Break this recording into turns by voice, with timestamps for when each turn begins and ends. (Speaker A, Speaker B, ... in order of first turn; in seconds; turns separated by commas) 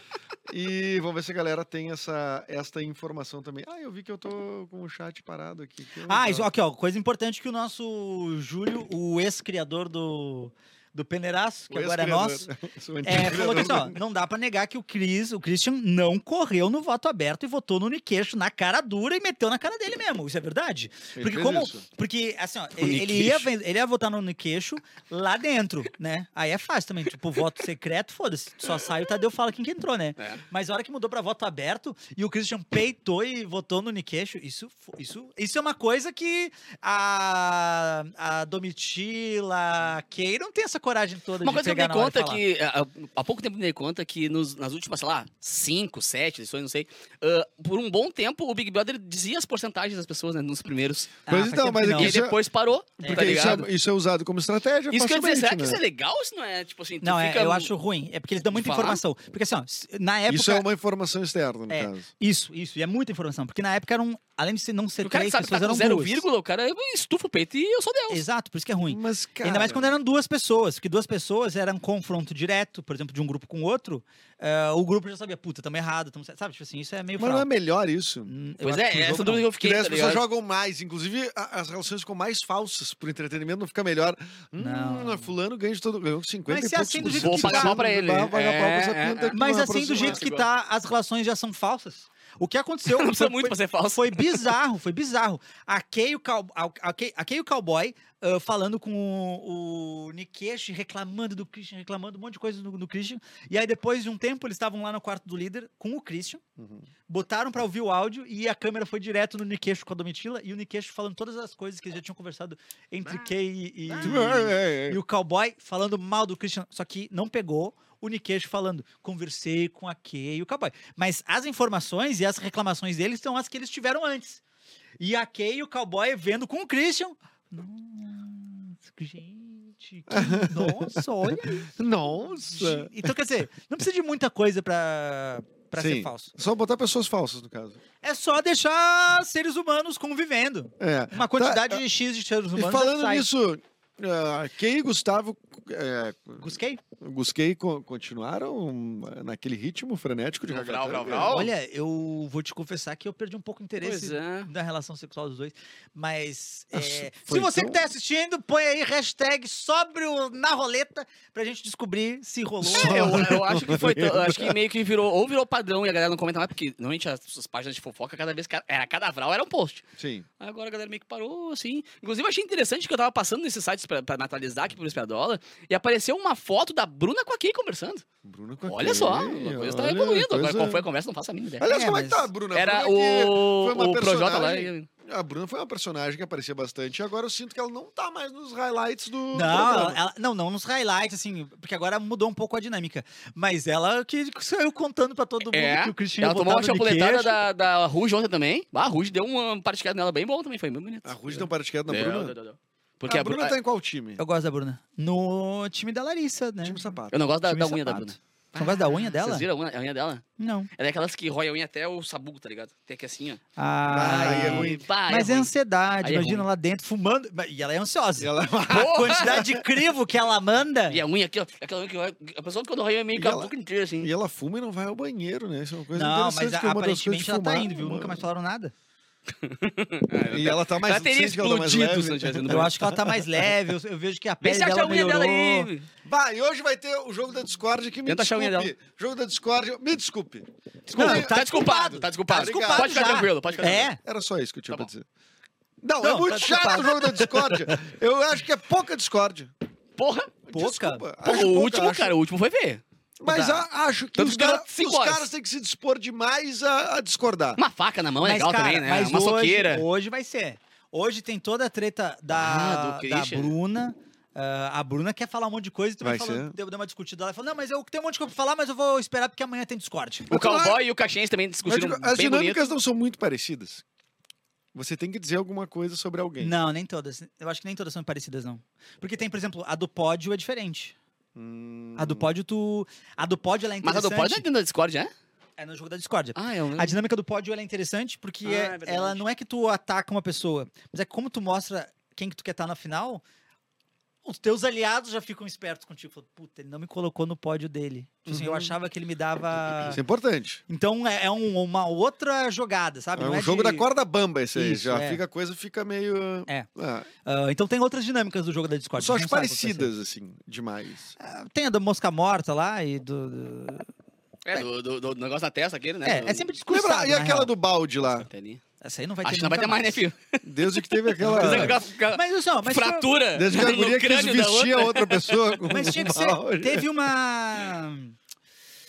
Speaker A: 0.5-6.5, Speaker B: 6.1-12.5, Speaker A: 11.7-14.0, Speaker B: 13.0-42.4, Speaker A: 21.1-21.8, Speaker C: 22.8-23.5, Speaker C: 41.4-51.2, Speaker B: 51.3-52.1, Speaker A: 51.3-52.4, Speaker C: 51.9-53.7, Speaker B: 53.0-53.6, Speaker A: 53.0-55.8, Speaker C: 54.9-57.7, Speaker B: 57.0-60.6, Speaker C: 58.5-59.0, Speaker A: 60.3-62.1, Speaker B: 61.7-66.2, Speaker C: 65.0-68.2, Speaker B: 68.1-77.5, Speaker A: 68.9-69.9, Speaker A: 77.2-78.3, Speaker B: 78.2-79.5, Speaker C: 78.6-80.2, Speaker A: 79.6-90.2, Speaker B: 84.6-85.3, Speaker B: 86.5-87.8, Speaker C: 87.1-89.4, Speaker B: 89.3-106.4, Speaker C: 89.9-90.5, Speaker C: 92.9-94.5, Speaker A: 106.6-106.8, Speaker B: 107.1-124.4, Speaker A: 114.0-115.0, Speaker B: 125.0-131.7, Speaker A: 130.1-133.1, Speaker B: 132.5-136.3, Speaker A: 135.8-137.8, Speaker B: 138.0-143.3, Speaker A: 140.8-141.8, Speaker A: 142.6-146.4, Speaker B: 146.4-146.8, Speaker A: 147.0-151.4, Speaker C: 150.5-151.5, Speaker B: 151.3-163.3, Speaker C: 153.8-154.5, Speaker A: 156.7-157.8, Speaker A: 162.6-164.6, Speaker C: 162.6-169.8, Speaker A: 170.0-170.2, Speaker C: 170.4-178.0, Speaker A: 178.2-180.8, Speaker C: 178.7-181.7, Speaker A: 181.6-190.0, Speaker B: 181.6-182.3, Speaker C: 182.5-184.9, Speaker B: 189.3-197.4, Speaker C: 195.4-203.5, Speaker A: 201.0-202.3, Speaker A: 203.1-204.2, Speaker B: 204.2-206.9, Speaker A: 206.6-207.3, Speaker C: 207.1-210.2, Speaker B: 207.4-209.4, Speaker B: 210.4-210.7, Speaker C: 210.8-213.4, Speaker B: 213.6-221.0, Speaker A: 213.9-214.8, Speaker C: 214.0-215.5, Speaker C: 216.0-216.4, Speaker A: 218.2-219.6, Speaker C: 218.7-219.4, Speaker C: 220.9-224.1, Speaker A: 223.1-228.2, Speaker B: 225.9-228.7, Speaker C: 229.4-233.2, Speaker A: 230.2-232.7, Speaker B: 232.5-235.7, Speaker C: 234.4-235.8, Speaker A: 236.0-241.4, Speaker C: 238.0-238.7, Speaker C: 240.9-243.9, Speaker B: 240.9-244.0, Speaker A: 242.3-245.0, Speaker A: 245.8-249.5, Speaker B: 246.0-247.6, Speaker C: 250.0-250.3, Speaker A: 250.4-252.1, Speaker B: 250.5-251.0, Speaker C: 251.2-252.8, Speaker A: 253.2-257.6, Speaker B: 253.2-253.6, Speaker C: 254.2-255.2, Speaker C: 257.6-259.8, Speaker B: 258.2-270.3, Speaker C: 262.3-263.5, Speaker A: 266.0-266.5, Speaker A: 270.3-270.8, Speaker C: 270.3-272.7, Speaker A: 271.6-273.8, Speaker A: 274.7-276.5, Speaker B: 276.4-280.9, Speaker A: 281.3-282.3, Speaker B: 282.0-284.4, Speaker C: 283.8-285.1, Speaker B: 285.6-293.2, Speaker C: 286.3-287.0, Speaker C: 288.4-289.2, Speaker B: 294.2-300.0, Speaker A: 298.3-298.7, Speaker A: 299.8-300.6, Speaker B: 300.7-303.9, Speaker A: 303.1-307.1, Speaker B: 304.5-305.2, Speaker B: 307.2-309.9, Speaker A: 309.0-311.1, Speaker B: 311.2-313.9, Speaker C: 314.4-316.5, Speaker B: 316.0-317.5, Speaker A: 316.7-318.3, Speaker C: 318.1-318.6, Speaker B: 318.8-320.0, Speaker C: 319.2-325.6, Speaker A: 320.4-321.8, Speaker B: 321.2-323.1, Speaker A: 323.3-326.9, Speaker B: 325.7-328.1